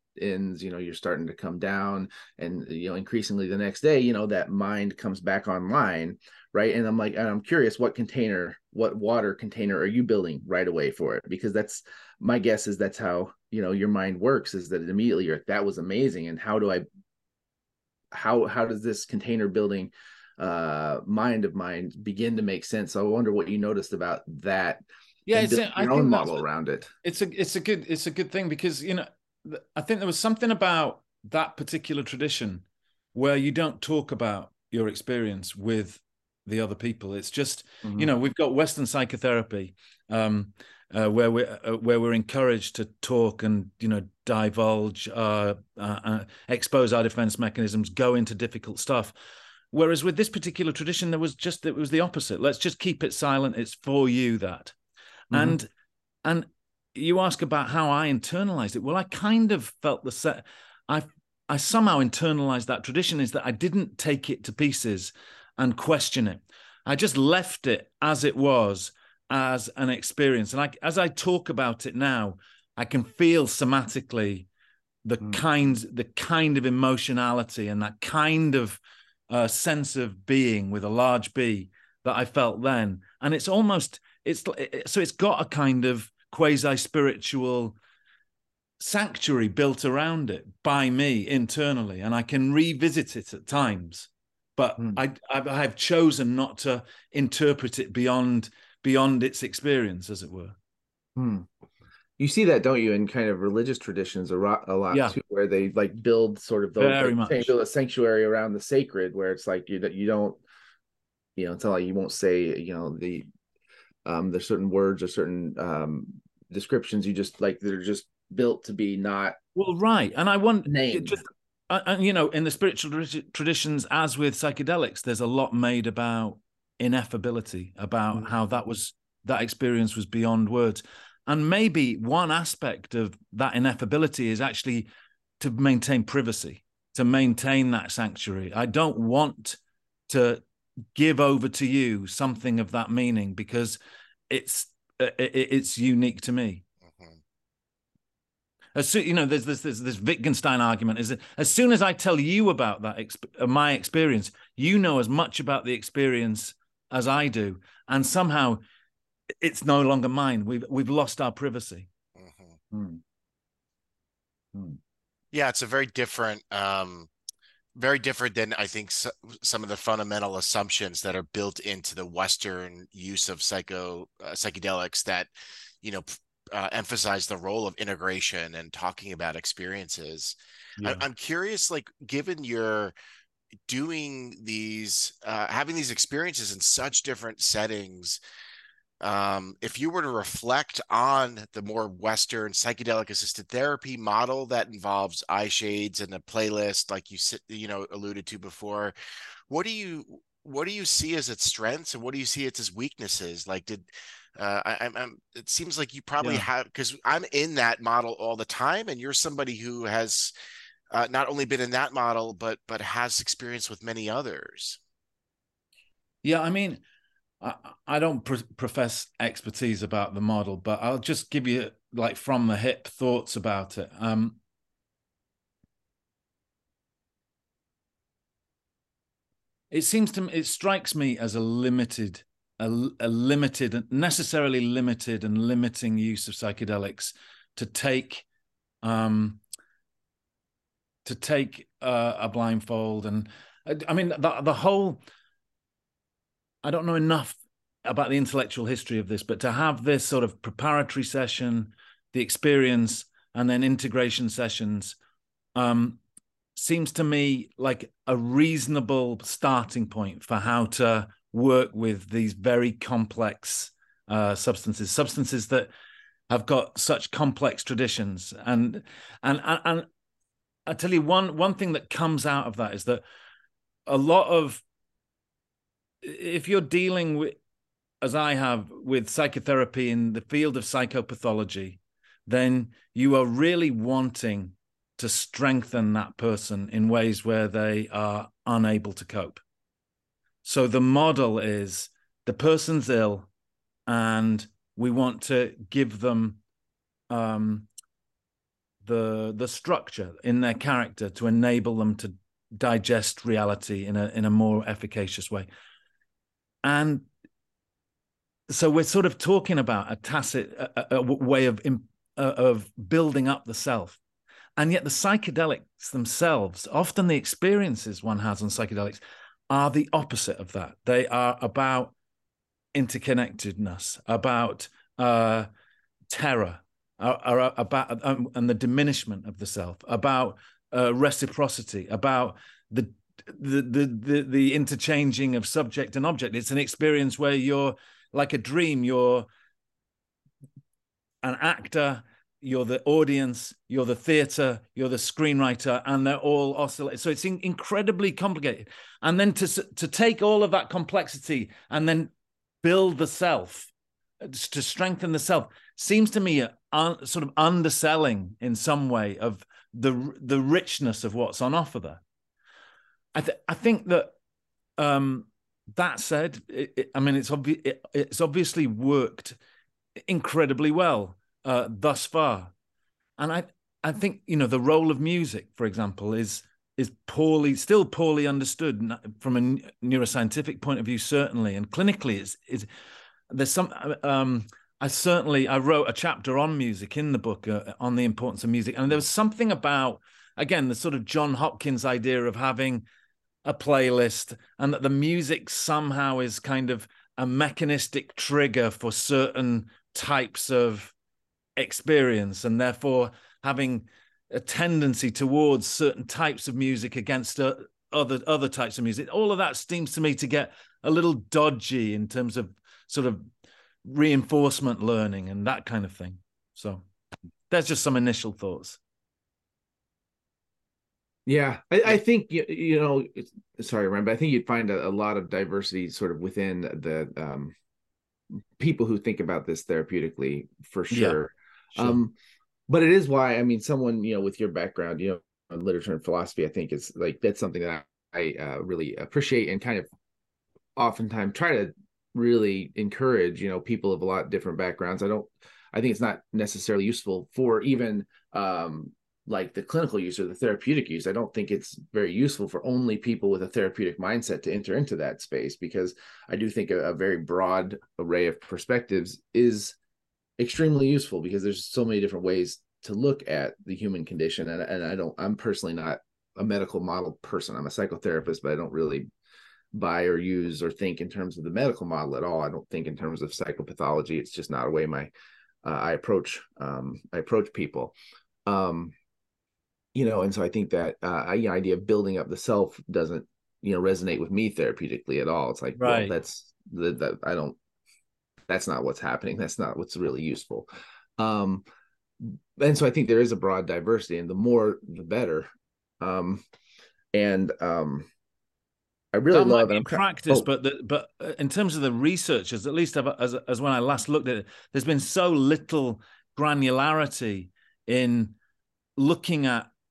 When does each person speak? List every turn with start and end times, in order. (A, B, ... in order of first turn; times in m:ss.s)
0:00.2-0:16.8 A
0:18.1-0:24.8 A
0:25.3-0:26.4 B
0:25.4-0:26.9 A
0:27.0-0:32.6 B
0:33.2-0:49.2 B
0:37.8-0:38.1 A
0:49.7-0:54.8 B
0:55.3-0:55.6 A
0:55.3-0:55.7 B
0:56.2-1:14.5 B
1:15.0-1:27.8 B
1:28.8-1:40.6 B
1:41.2-1:41.5 A
1:42.2-1:50.4 A
1:46.8-1:47.5 B
1:51.4-1:53.3 A
1:54.0-1:59.4 A
1:59.6-2:14.9 B
2:00.7-2:01.2 A
2:15.4-2:20.4 B
2:21.0-2:23.8 B
2:24.3-2:26.6 B
2:26.8-2:27.2 C
2:28.8-2:38.6 B
2:39.4-2:41.9 B
2:42.2-2:42.6 C
2:42.7-2:43.0 A
2:45.3-2:47.1 C
2:47.8-2:55.3 C
2:55.8-3:02.9 C
3:03.7-3:08.2 C
3:09.0-3:18.9 C
3:19.5-3:30.3 C
3:26.2-3:26.5 B
3:30.9-3:34.8 C
3:36.2-3:36.8 B
3:37.4-3:44.4 B
3:49.7-3:58.2 B
3:58.8-3:59.4 B
4:01.0-4:05.0 B
4:06.6-4:15.0 B
4:15.6-4:16.0 B
4:16.6-4:25.7 B
4:26.3-4:29.9 B
4:30.7-4:33.0 B
4:33.9-4:34.6 B
4:36.0-4:37.4 B
4:38.0-4:49.4 B
4:50.4-4:53.3 B
4:53.9-4:56.4 B
4:57.1-4:57.7 B
4:58.8-5:05.5 B
5:06.6-5:07.0 B
5:08.5-5:14.0 B
5:14.6-5:21.9 B
5:22.7-5:25.5 B
5:26.1-5:39.3 B
5:41.2-5:52.1 B
5:52.6-5:53.7 B
5:54.2-6:02.0 B
6:03.1-6:04.1 B
6:04.8-6:09.4 B
6:10.0-6:12.5 B
6:13.2-6:22.7 B
6:23.3-6:32.8 B
6:33.4-6:40.9 B
6:41.6-6:53.2 B
6:53.8-6:56.8 B
6:57.5-6:58.8 B
7:01.3-7:07.5 A
7:08.6-7:12.1 A
7:10.9-7:11.2 B
7:12.7-7:19.9 A
7:20.8-7:39.8 A
7:40.4-7:49.1 A
7:49.7-7:55.1 A
7:55.6-7:57.9 A
7:58.5-7:58.9 A
8:00.0-8:07.6 A
8:05.8-8:06.1 B
8:08.5-8:11.6 A
8:12.2-8:15.5 A
8:16.0-8:16.4 A
8:17.1-8:18.1 A
8:19.1-8:20.5 A
8:19.3-8:28.4 B
8:29.0-8:29.7 B